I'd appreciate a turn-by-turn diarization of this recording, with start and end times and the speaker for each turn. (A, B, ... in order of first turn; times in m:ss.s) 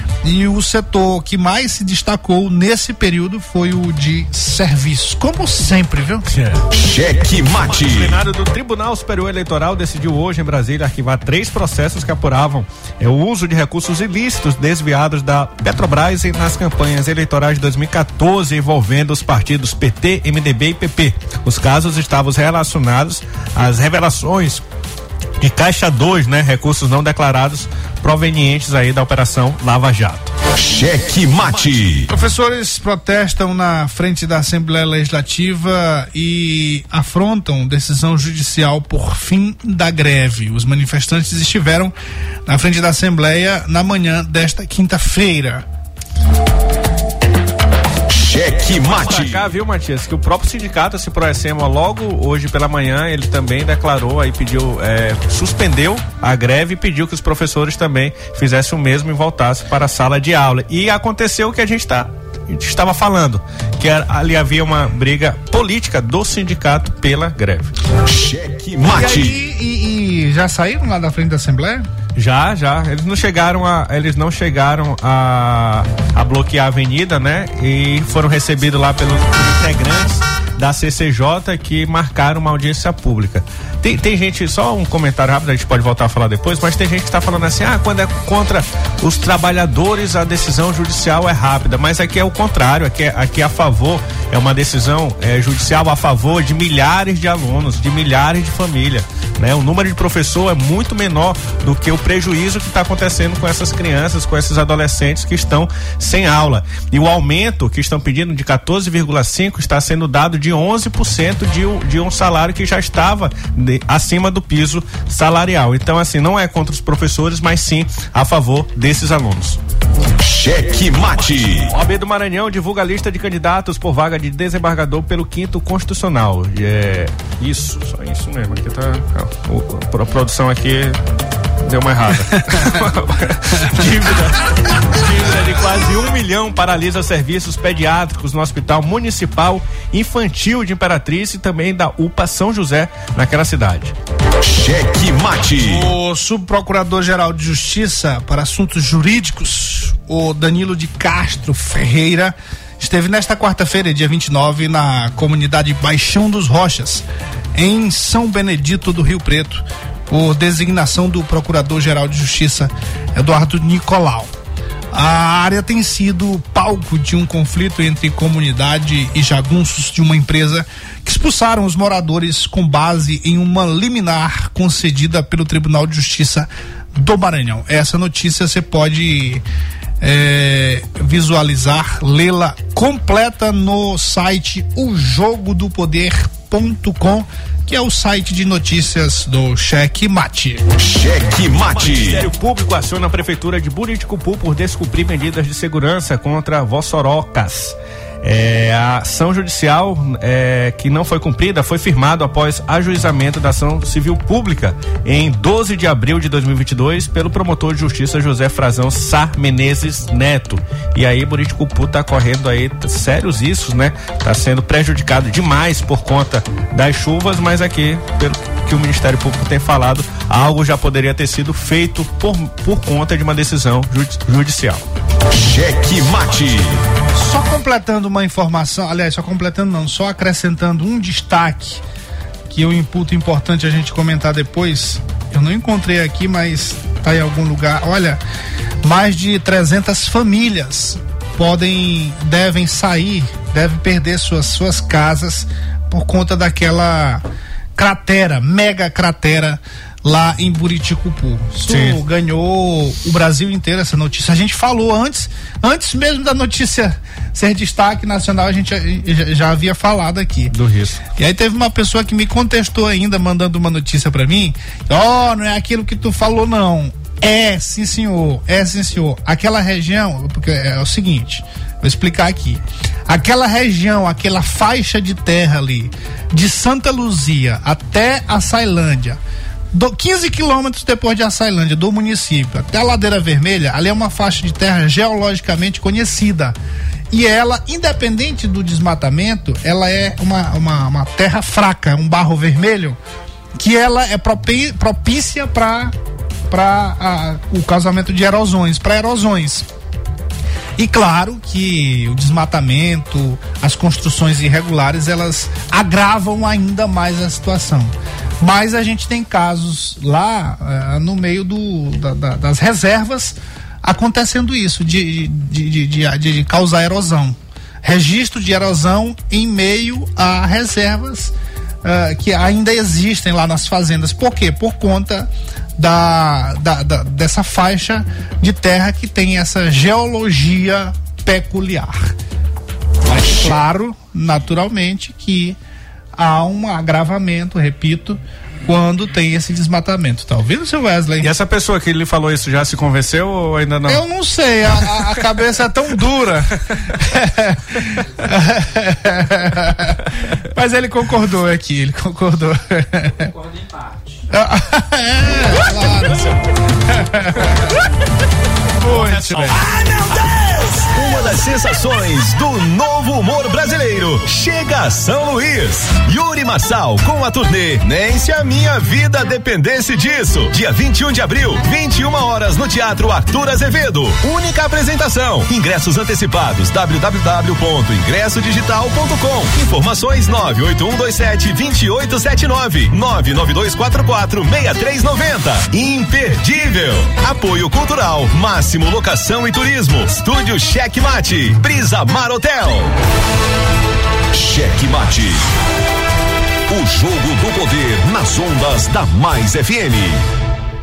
0:00.2-0:06.2 A
0:06.3-0:06.6 B
0:06.7-0:08.2 C
0:07.6-0:24.6 B
0:25.4-0:30.3 B
0:30.6-0:32.1 C
0:32.1-0:42.0 A
0:42.5-0:45.6 A
0:48.1-0:49.5 C
0:48.7-1:07.7 B
1:08.0-1:09.4 C
1:08.8-1:11.9 A
1:12.2-1:59.6 B
2:00.2-2:01.7 C
2:01.7-2:11.0 B
2:11.6-2:23.9 B
2:12.3-2:12.8 A
2:24.4-2:25.9 C
2:25.6-2:44.3 A
2:44.9-2:59.4 A
3:00.0-3:10.6 A
3:10.8-3:12.3 C
3:11.8-3:44.8 B
3:45.3-3:46.8 C
3:47.2-3:51.8 A
3:52.5-3:58.2 A
3:58.8-4:07.2 A
4:07.8-4:20.6 A
4:11.7-4:12.0 B
4:20.5-4:21.1 B
4:21.1-4:39.2 A
4:39.7-4:46.6 A
4:47.1-4:53.0 A
4:53.6-4:55.9 A
4:56.5-4:59.7 A
5:00.8-5:32.1 A
5:33.1-5:35.6 A
5:36.2-5:41.3 A
5:41.2-5:44.0 B
5:43.9-5:53.3 A
5:44.8-5:45.2 B
5:54.3-5:57.8 A
5:58.8-5:59.8 A
5:58.8-5:59.6 B
6:00.8-6:33.0 C
6:34.3-6:35.5 C
6:36.7-6:40.3 C